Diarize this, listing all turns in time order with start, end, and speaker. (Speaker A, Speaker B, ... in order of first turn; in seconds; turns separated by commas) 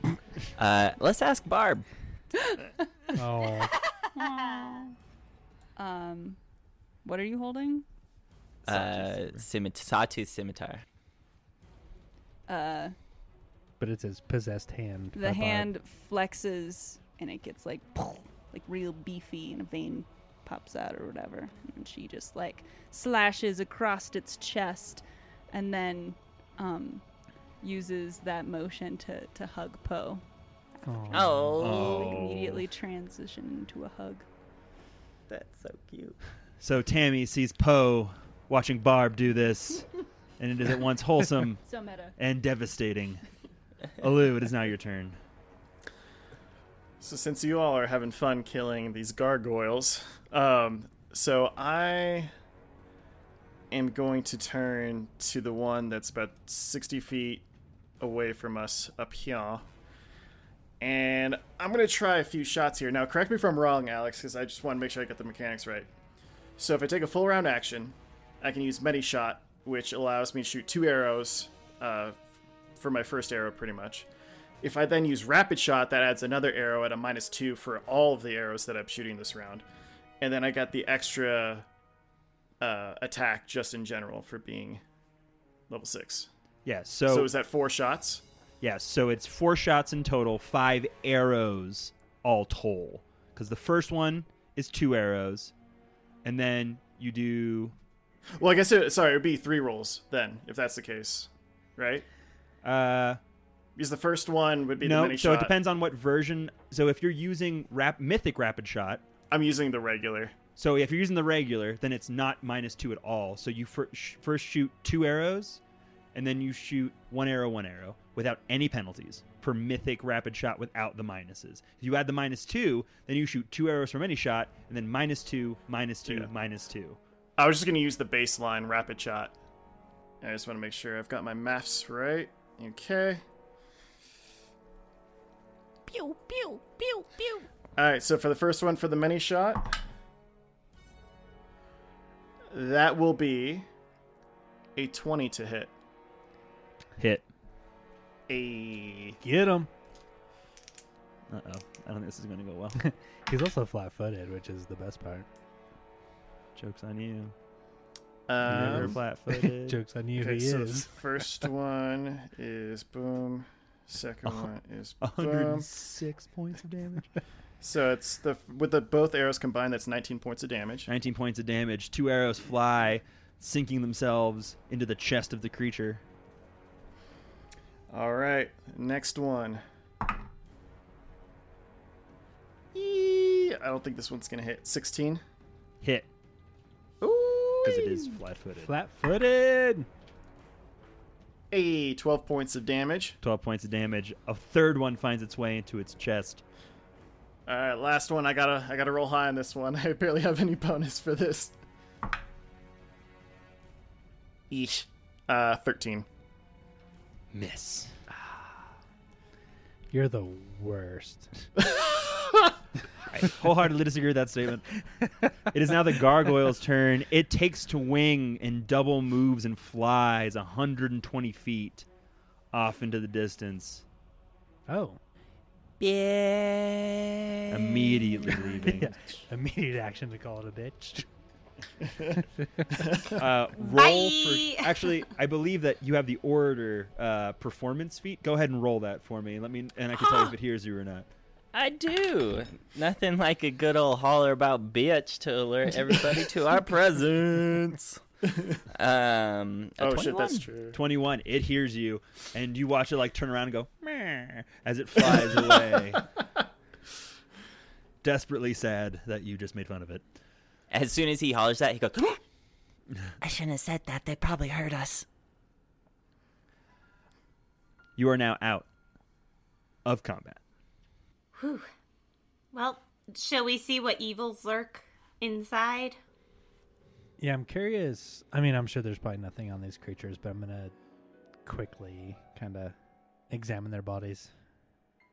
Speaker A: 0.6-1.9, Speaker B: 3.1-3.8, Speaker C: 4.2-4.9, Speaker C: 5.8-6.4, Speaker C: 7.0-7.8, Speaker A: 8.7-10.8, Speaker D: 8.7-9.5, Speaker C: 12.5-12.9, Speaker B: 13.8-15.7, Speaker C: 15.2-27.0, Speaker C: 27.6-30.2, Speaker B: 30.9-31.6, Speaker A: 31.1-32.3, Speaker C: 31.5-34.3, Speaker D: 31.6-32.7, Speaker A: 35.3-36.2, Speaker D: 36.6-39.9, Speaker D: 40.4-41.6, Speaker C: 41.6-42.1, Speaker D: 42.2-43.2, Speaker D: 44.0-45.2, Speaker E: 47.0-52.3, Speaker E: 53.7-57.4, Speaker E: 58.0-59.6, Speaker E: 60.8-65.9, Speaker E: 66.6-72.2, Speaker E: 72.8-74.1, Speaker E: 74.6-79.7, Speaker E: 80.2-81.7, Speaker E: 82.6-84.8, Speaker E: 85.7-86.3, Speaker D: 86.7-87.3, Speaker E: 87.1-88.2, Speaker D: 88.6-95.5, Speaker D: 96.2-97.8, Speaker E: 98.4-102.1, Speaker D: 102.6-103.2, Speaker E: 103.8-105.5, Speaker D: 104.8-109.0, Speaker E: 109.3-110.3, Speaker D: 110.6-115.6, Speaker D: 116.1-127.0, Speaker E: 127.4-129.3, Speaker E: 130.2-133.2, Speaker C: 135.9-137.5, Speaker E: 137.8-139.8, Speaker E: 142.5-143.7, Speaker E: 144.8-145.7, Speaker D: 147.0-147.3, Speaker E: 148.3-149.2, Speaker B: 149.2-149.7, Speaker D: 151.3-152.8, Speaker B: 152.8-155.3, Speaker D: 156.6-157.3, Speaker E: 158.3-159.0, Speaker D: 158.4-159.8, Speaker B: 158.4-161.4, Speaker E: 160.2-165.7, Speaker D: 165.0-167.1, Speaker E: 167.6-170.9, Speaker D: 170.9-176.0, Speaker E: 177.9-179.6, Speaker E: 182.7-185.2, Speaker D: 185.8-186.1, Speaker D: 187.6-188.7, Speaker B: 188.6-189.9, Speaker E: 191.5-193.2, Speaker D: 193.2-196.4, Speaker E: 197.5-201.5, Speaker E: 204.5-206.1, Speaker D: 207.3-208.0, Speaker B: 209.9-211.3, Speaker D: 213.1-214.7, Speaker D: 215.5-221.9, Speaker D: 222.5-223.8, Speaker B: 224.7-225.0, Speaker A: 225.8-228.8, Speaker D: 227.5-228.9, Speaker B: 228.6-231.1, Speaker B: 232.2-232.7, Speaker D: 233.2-241.1, Speaker F: 233.7-234.9, Speaker A: 241.5-248.0, Speaker E: 248.3-248.6, Speaker A: 248.7-250.5, Speaker E: 249.8-250.8, Speaker D: 250.7-256.1, Speaker D: 258.0-260.0, Speaker A: 260.7-262.2, Speaker A: 263.2-265.1, Speaker D: 268.0-268.7, Speaker D: 269.9-270.4, Speaker F: 271.4-271.7, Speaker F: 272.5-276.0, Speaker B: 277.2-280.7, Speaker B: 281.4-282.8, Speaker B: 283.3-284.3